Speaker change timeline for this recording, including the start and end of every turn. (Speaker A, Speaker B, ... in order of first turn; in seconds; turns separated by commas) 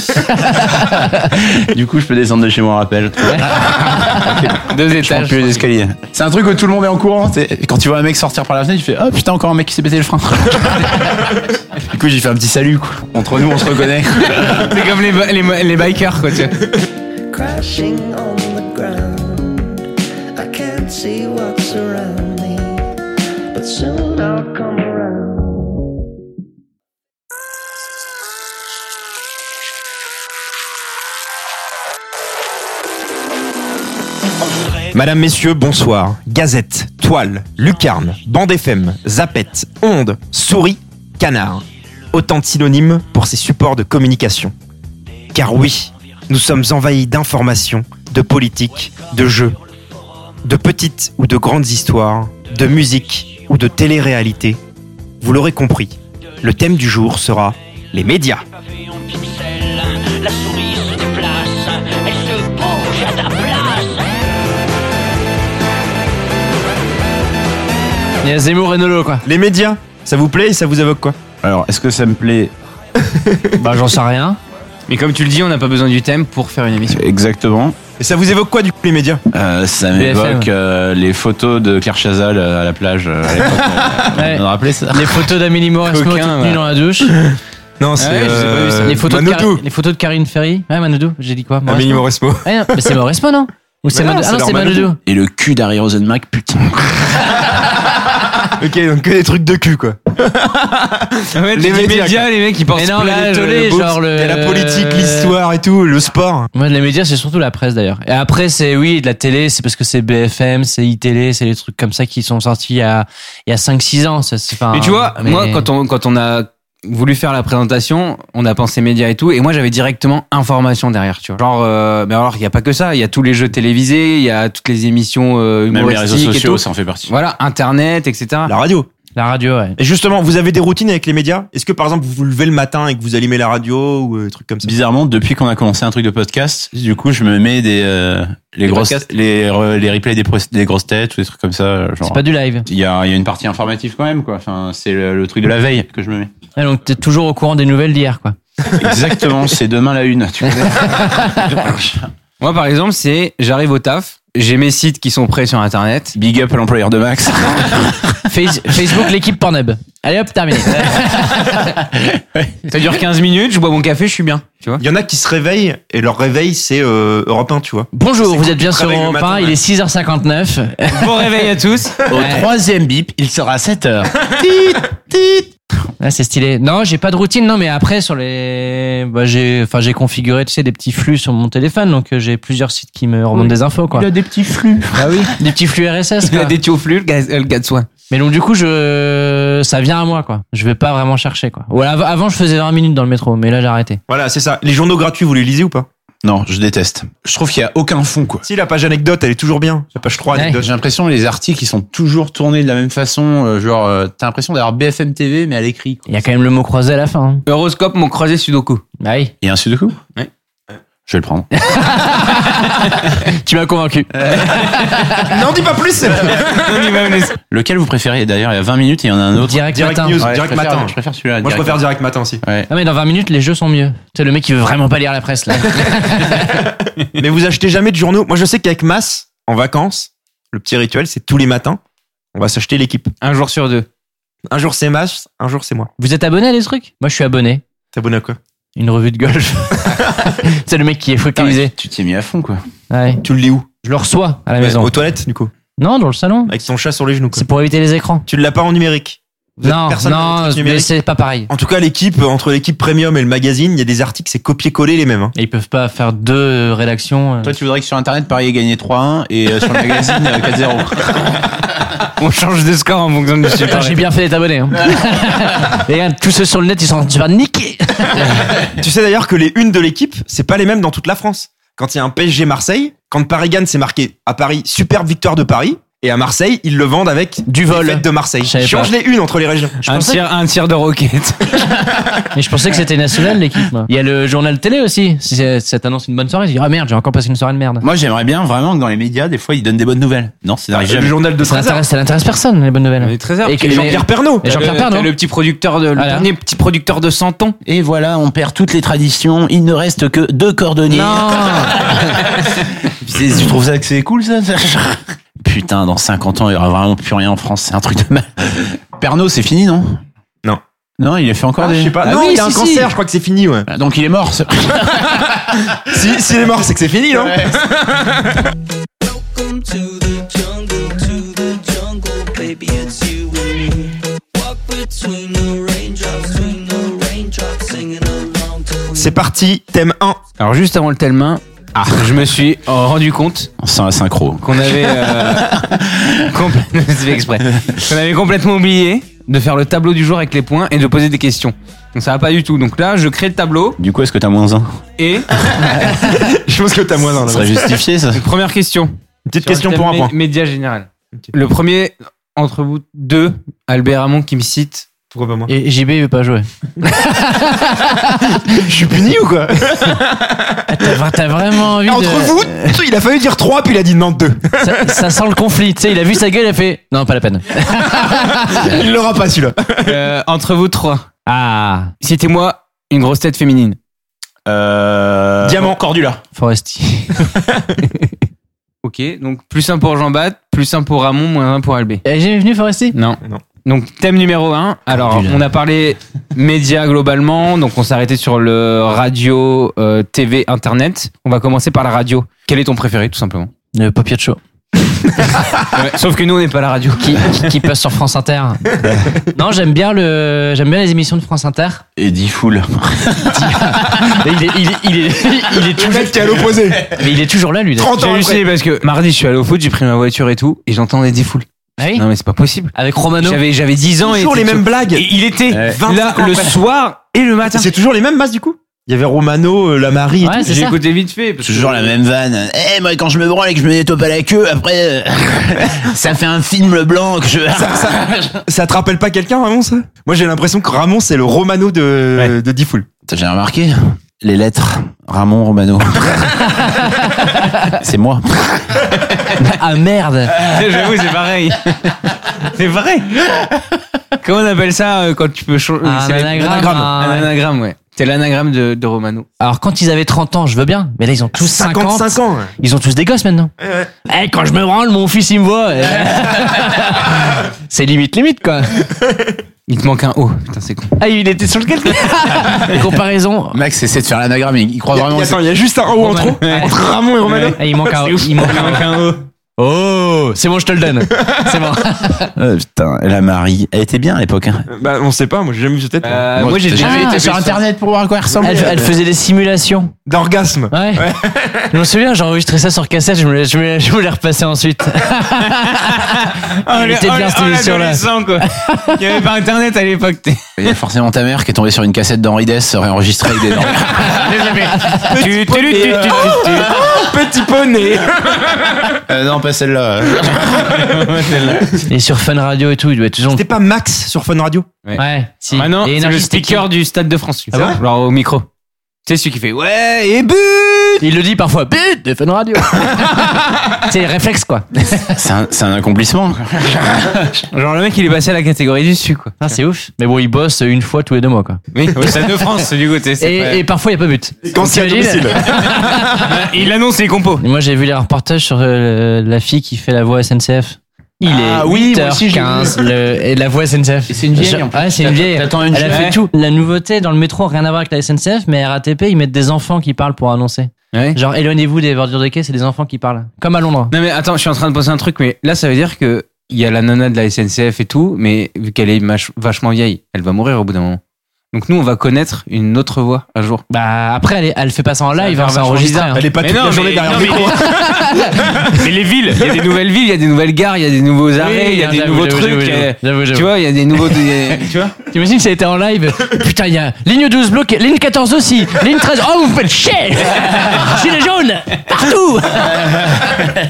Speaker A: 0.2-1.3, Speaker B: 1.3-14.8, Speaker A: 3.2-4.3, Speaker C: 4.7-5.7, Speaker C: 14.3-16.6, Speaker D: 17.3-22.9, Speaker D: 23.5-25.7, Speaker E: 34.9-44.5, Speaker E: 45.3-49.6, Speaker E: 50.5-54.6, Speaker E: 55.2-58.4, Speaker A: 68.2-69.2, Speaker E: 69.2-71.2, Speaker B: 71.4-72.5, Speaker E: 73.1-73.5, Speaker A: 73.6-74.4, Speaker C: 74.9-77.0, Speaker B: 76.9-77.8, Speaker E: 78.0-79.2, Speaker B: 79.3-85.3, Speaker A: 80.0-80.5, Speaker A: 84.1-87.2, Speaker C: 85.9-86.7, Speaker E: 87.8-89.6, Speaker C: 88.0-89.0, Speaker A: 88.8-95.0, Speaker E: 91.7-92.8, Speaker E: 93.9-94.9, Speaker B: 95.0-97.4, Speaker E: 98.6-102.3, Speaker C: 101.3-104.0, Speaker A: 102.8-105.3, Speaker E: 104.1-106.5, Speaker A: 106.5-115.7, Speaker C: 114.7-128.5, Speaker B: 125.7-127.1, Speaker E: 128.5-128.9, Speaker A: 129.2-129.8, Speaker E: 129.8-134.7, Speaker B: 134.6-146.3, Speaker C: 138.7-139.1, Speaker A: 142.0-142.7, Speaker A: 146.6-148.4, Speaker B: 148.8-152.1, Speaker A: 151.1-151.4, Speaker C: 152.4-156.2, Speaker B: 156.2-158.2, Speaker A: 158.3-161.7, Speaker B: 160.7-162.8, Speaker C: 162.7-164.8, Speaker E: 164.8-169.6, Speaker A: 167.9-171.2, Speaker C: 170.9-171.9, Speaker B: 172.1-175.5, Speaker A: 172.1-172.5, Speaker A: 176.0-184.1, Speaker B: 183.3-185.3, Speaker A: 184.9-186.6, Speaker C: 186.2-187.9, Speaker A: 188.1-194.0, Speaker E: 194.1-195.9, Speaker B: 196.2-198.4, Speaker E: 198.4-200.7, Speaker A: 200.3-200.6, Speaker B: 200.6-206.1, Speaker A: 206.1-207.4, Speaker C: 207.5-208.8, Speaker A: 209.0-209.3, Speaker B: 209.4-210.0, Speaker B: 211.1-211.5, Speaker A: 211.6-215.3, Speaker E: 215.3-216.9, Speaker C: 216.3-217.4, Speaker B: 217.5-219.7, Speaker A: 219.4-220.2, Speaker E: 219.7-222.4, Speaker B: 220.2-221.8, Speaker B: 222.4-222.7, Speaker A: 222.7-226.6, Speaker E: 227.2-231.8, Speaker E: 232.3-233.1, Speaker C: 233.2-233.9, Speaker E: 234.5-235.9, Speaker A: 236.0-237.6, Speaker E: 237.9-238.4, Speaker A: 238.8-241.7, Speaker B: 241.3-242.6, Speaker A: 242.9-243.2, Speaker E: 243.2-243.7, Speaker A: 243.8-244.9, Speaker E: 244.6-245.5, Speaker A: 245.8-246.5, Speaker E: 246.5-247.5, Speaker A: 247.3-248.2, Speaker E: 248.3-250.9, Speaker A: 249.6-251.5, Speaker E: 251.5-255.3, Speaker A: 255.3-257.5, Speaker B: 257.4-261.3, Speaker C: 262.1-264.1, Speaker A: 263.7-268.3, Speaker E: 268.8-279.8, Speaker A: 277.5-278.9, Speaker A: 279.8-280.2, Speaker C: 279.9-281.7, Speaker A: 282.3-287.9, Speaker B: 287.8-291.2, Speaker E: 290.7-291.9, Speaker A: 291.4-295.1, Speaker C: 293.0-297.6, Speaker E: 293.6-294.7, Speaker A: 296.0-296.3, Speaker B: 297.6-310.0, Speaker A: 300.9-301.9, Speaker B: 311.0-312.7, Speaker E: 311.6-313.7, Speaker B: 313.7-315.7, Speaker E: 315.8-318.4, Speaker B: 317.1-317.6, Speaker D: 319.0-329.2, Speaker E: 328.9-330.2, Speaker C: 330.4-333.5, Speaker B: 331.8-332.2, Speaker B: 333.6-336.3, Speaker C: 334.4-335.7, Speaker C: 336.3-343.8, Speaker B: 337.5-337.8, Speaker B: 343.8-344.8, Speaker C: 345.0-345.3, Speaker E: 345.7-347.8, Speaker B: 347.2-348.2, Speaker C: 348.1-348.9, Speaker E: 349.3-350.1, Speaker C: 349.4-354.9, Speaker E: 355.1-355.5, Speaker A: 355.5-358.6, Speaker E: 358.6-360.7, Speaker A: 360.7-362.8, Speaker E: 361.8-364.9, Speaker A: 364.6-368.5, Speaker E: 367.9-369.9, Speaker C: 369.8-371.1, Speaker A: 371.3-371.9, Speaker C: 372.0-373.8, Speaker B: 374.5-376.2, Speaker E: 375.4-375.8, Speaker A: 376.4-377.3, Speaker C: 378.8-382.0, Speaker A: 382.0-382.9, Speaker C: 382.9-393.5, Speaker A: 384.9-385.4, Speaker A: 393.8-394.4, Speaker C: 395.6-397.5, Speaker A: 397.0-398.7, Speaker A: 399.3-401.8, Speaker B: 402.0-403.7, Speaker A: 403.3-408.1, Speaker E: 405.7-407.0, Speaker E: 407.8-408.4, Speaker C: 408.0-417.7, Speaker A: 411.8-412.0, Speaker A: 412.8-413.4, Speaker E: 414.0-415.1, Speaker B: 415.5-415.8, Speaker E: 415.7-416.6, Speaker E: 417.5-420.5, Speaker A: 420.2-420.8, Speaker C: 420.4-422.0, Speaker B: 421.4-428.4, Speaker E: 427.5-432.9, Speaker B: 433.1-436.6, Speaker A: 436.6-437.7, Speaker B: 437.7-439.0, Speaker A: 439.4-440.4, Speaker C: 440.4-443.2, Speaker C: 444.2-449.3, Speaker A: 445.8-447.3, Speaker E: 446.4-446.9, Speaker A: 449.4-453.5, Speaker E: 451.4-452.5, Speaker A: 454.1-458.9, Speaker C: 459.7-461.0, Speaker A: 461.0-463.6, Speaker B: 463.5-465.4, Speaker E: 464.9-467.6, Speaker A: 466.0-466.7, Speaker C: 466.4-466.7, Speaker C: 467.2-469.2, Speaker A: 467.6-468.9, Speaker A: 469.6-472.3, Speaker B: 472.4-474.7, Speaker E: 474.7-476.3, Speaker C: 476.0-477.6, Speaker B: 476.4-478.9, Speaker A: 476.8-477.2, Speaker A: 478.4-479.9, Speaker E: 480.1-481.7, Speaker A: 480.7-481.1, Speaker A: 481.7-486.2, Speaker C: 485.7-490.7, Speaker A: 486.7-489.0, Speaker B: 490.6-494.8, Speaker A: 494.8-495.1, Speaker C: 495.1-497.0, Speaker E: 495.1-499.0, Speaker B: 499.1-501.6, Speaker C: 500.9-501.6, Speaker A: 501.9-503.4, Speaker E: 503.3-504.7, Speaker A: 505.0-506.7, Speaker C: 505.5-508.5, Speaker E: 507.5-507.8, Speaker C: 509.1-511.0, Speaker A: 511.0-515.1, Speaker B: 515.1-517.4, Speaker C: 517.5-519.6, Speaker A: 519.4-521.6, Speaker C: 521.7-523.6, Speaker A: 523.2-526.3, Speaker E: 524.5-525.8, Speaker C: 526.1-527.4, Speaker A: 527.4-543.9, Speaker B: 531.2-532.9, Speaker B: 534.1-536.1, Speaker C: 535.9-536.2, Speaker C: 540.9-541.2, Speaker C: 543.9-551.0, Speaker C: 551.5-553.6, Speaker A: 553.7-556.2, Speaker C: 555.2-557.9, Speaker E: 556.1-558.8, Speaker A: 557.3-558.3, Speaker C: 558.6-564.9, Speaker A: 561.4-563.5, Speaker A: 565.0-573.4